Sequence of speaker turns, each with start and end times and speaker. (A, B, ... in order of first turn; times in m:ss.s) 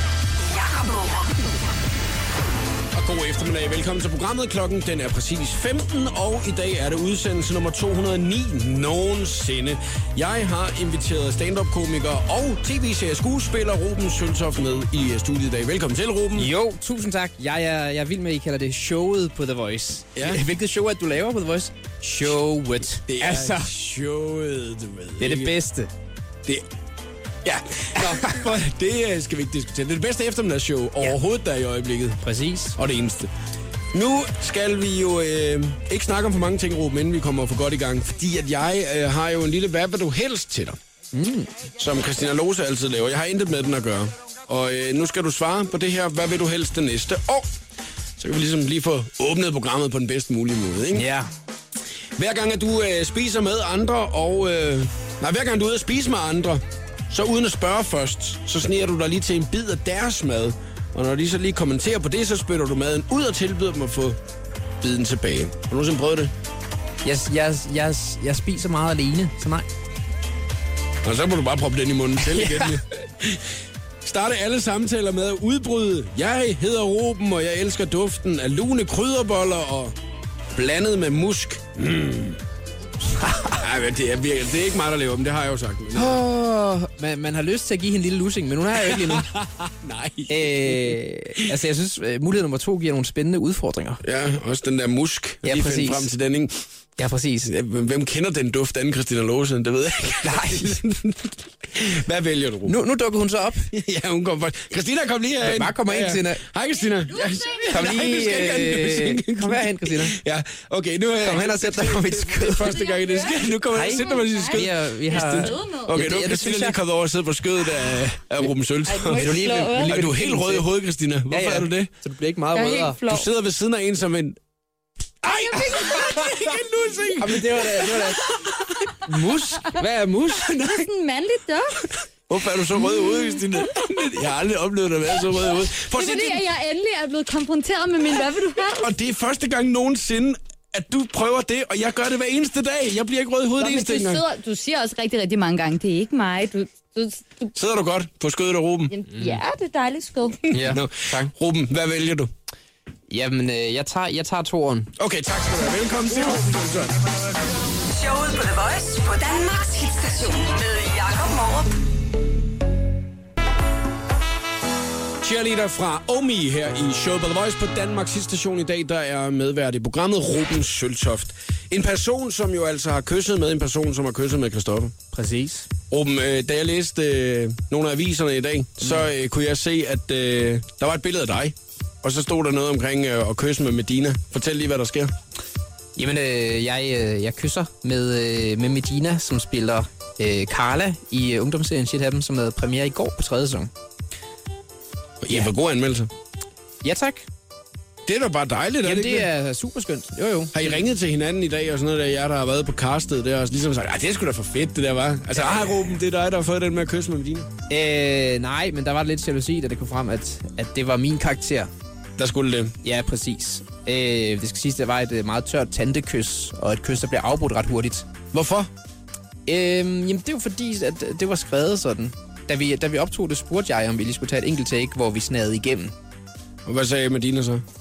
0:00.4-0:01.4 A
0:02.9-0:16.5 B
0:16.4-0:23.7 C
0:23.1-0:25.6 B
0:25.2-0:25.9 C
0:27.4-0:32.2 B
0:32.2-0:32.8 C
0:32.8-0:33.3 B
0:33.9-0:40.8 B
0:41.1-0:41.5 C
0:41.8-0:47.5 B
0:48.2-0:51.1 B
0:50.9-0:51.3 C
0:52.2-1:04.2 B
1:04.8-1:06.3 B
1:07.0-1:09.7 C
1:11.0-1:13.5 B
1:12.2-1:12.8 C
1:14.0-1:20.0 B
1:20.5-1:22.4 B
1:23.3-1:23.5 C
1:23.5-1:26.2 B
1:25.9-1:29.3 C
1:28.7-1:31.5 B
1:30.3-1:34.0 C
1:34.0-1:36.5 B
1:35.4-1:36.1 C
1:37.0-1:37.5 C
1:37.4-1:42.8 B
1:40.2-1:40.8 C
1:42.7-1:43.7 C
1:43.7-2:01.9 B
1:45.4-1:46.4 C
1:47.7-1:50.2 C
1:51.2-1:52.8 C
1:52.8-1:53.4 D
1:53.7-1:56.8 C
1:54.1-1:55.9 D
1:58.9-2:00.0 D
1:59.1-2:00.7 C
2:01.3-2:03.0 C
2:02.5-2:03.3 D
2:03.0-2:04.4 B
2:05.2-2:08.9 B
2:05.6-2:06.2 C
2:07.2-2:08.2 C
2:09.1-2:10.6 C
2:10.4-2:10.9 B
2:10.5-2:11.8 D
2:12.3-2:16.5 B
2:12.9-2:13.9 D
2:15.5-2:18.9 D
2:18.6-2:24.2 B
2:23.6-2:27.5 D
2:27.5-2:29.0 B
2:28.9-2:30.4 D
2:30.5-2:31.3 C
2:30.5-2:32.3 B
2:33.1-2:34.9 C
2:35.0-2:37.3 B
2:37.8-2:41.8 A
2:45.2-2:55.0 B
2:55.1-2:55.7 C
2:55.9-3:05.1 B
3:06.0-3:13.7 C
3:15.2-3:16.1 B
3:16.8-3:17.2 C
3:18.1-3:19.3 B
3:18.8-3:20.8 C
3:20.5-3:27.5 B
3:25.3-3:25.7 C
3:27.7-3:31.7 C
3:32.2-3:32.8 B
3:32.8-3:38.1 C
3:38.3-3:38.7 B
3:39.5-3:45.9 C
3:46.7-3:47.6 B